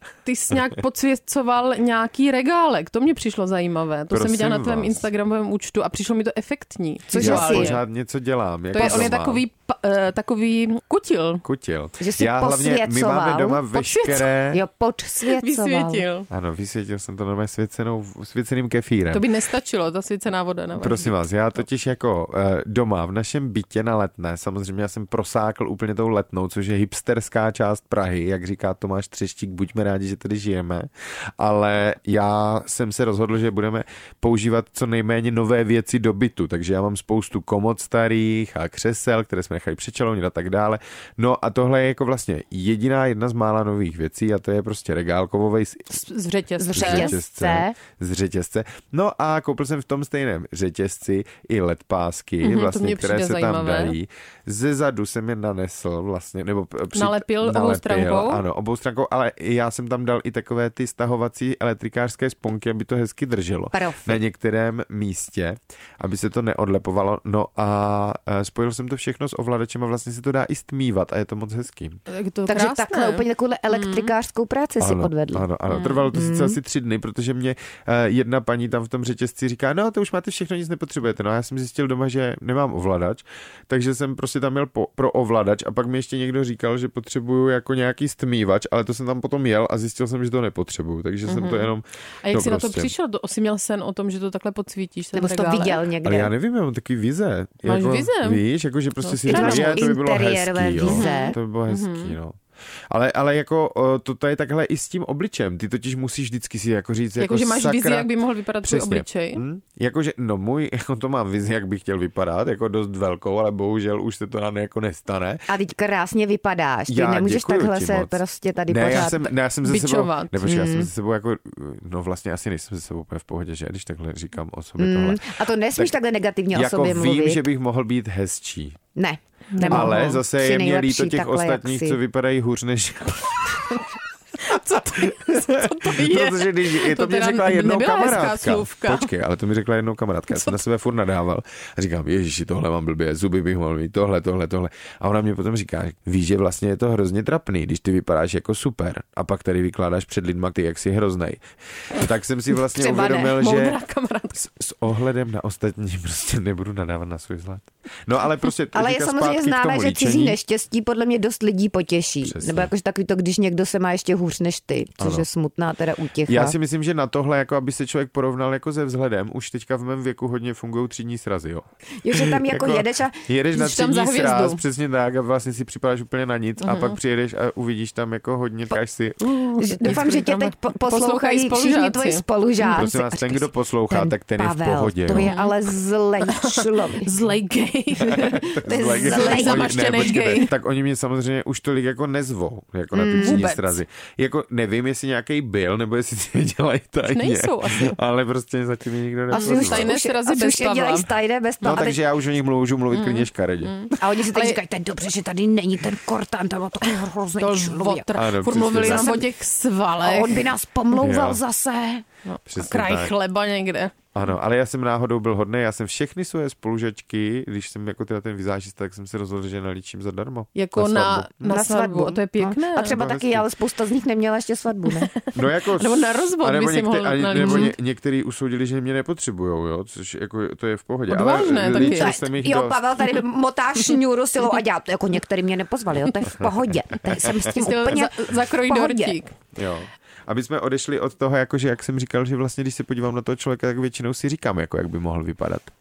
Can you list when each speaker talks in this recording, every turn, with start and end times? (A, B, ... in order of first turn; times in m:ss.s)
0:00.2-0:07.8 A
0:04.1-0:05.1 B
0:07.1-0:07.8 C
0:07.2-0:09.4 B
0:08.7-0:11.4 A
0:08.7-0:09.1 C
0:11.4-0:14.6 B
0:12.0-0:13.6 C
0:13.7-0:14.3 A
0:14.5-0:16.0 C
0:15.3-0:16.3 A
0:16.3-0:19.2 B
0:19.1-0:21.2 A
0:20.8-0:46.0 B
0:45.9-0:47.2 A
0:46.6-0:47.8 C
0:46.7-1:12.0 B
0:52.4-0:54.0 A
0:56.9-0:58.4 A
1:03.7-1:04.2 C
1:12.1-1:14.1 A
1:12.5-1:15.4 C
1:14.8-1:32.9 B
1:15.7-1:16.0 A
1:16.1-1:16.6 C
1:31.3-1:31.7 A
1:32.2-1:35.8 A
1:35.1-1:36.3 C
1:36.0-1:42.4 B
1:37.6-1:38.4 A
1:39.0-1:39.9 A
1:39.3-1:41.4 C
1:40.9-1:42.2 A
1:42.9-1:55.4 B
1:47.2-1:49.4 A
1:55.5-1:59.3 C
1:56.9-1:58.2 B
1:58.7-2:05.9 B
1:59.6-2:00.4 A
2:00.4-2:00.9 C
2:04.8-2:07.4 C
2:06.5-2:08.8 B
2:09.0-2:12.0 C
2:09.5-2:10.2 A
2:09.7-2:13.8 B
2:14.4-2:19.1 A
2:14.5-2:33.8 B
2:32.8-2:33.5 C
2:32.8-2:34.4 A
2:34.3-2:40.4 B
2:38.7-2:46.6 C
2:42.2-2:42.7 B
2:45.0-2:45.3 B
2:46.3-2:59.4 B
2:52.0-2:53.2 C
2:53.5-2:54.6 A
2:56.6-2:57.0 A
2:59.4-3:02.2 A
2:59.6-3:07.1 C
3:02.6-3:05.3 B
3:05.1-3:05.6 A
3:06.2-3:10.5 A
3:08.1-3:19.9 B
3:08.2-3:10.1 C
3:12.9-3:13.4 C
3:13.2-3:13.8 A
3:17.1-3:18.0 A
3:19.3-3:22.0 C
3:19.3-3:21.1 A
3:21.6-3:24.0 B
3:22.9-3:24.6 A
3:24.0-3:29.2 C
3:27.4-3:30.5 A
3:28.1-3:29.2 B
3:30.0-3:32.0 C
3:31.0-3:31.4 B
3:32.3-3:33.9 A
3:32.4-3:33.1 B
3:34.1-3:41.3 B
3:40.6-3:42.9 A
3:41.4-3:45.1 C
3:42.8-3:43.5 B
3:45.3-3:52.8 B
3:45.8-3:47.7 A
3:47.3-3:47.7 C
3:51.1-3:52.1 A
3:51.3-3:59.2 C
3:56.2-3:56.5 B
3:57.1-3:57.5 B
3:57.5-3:59.3 A
3:59.6-4:05.7 B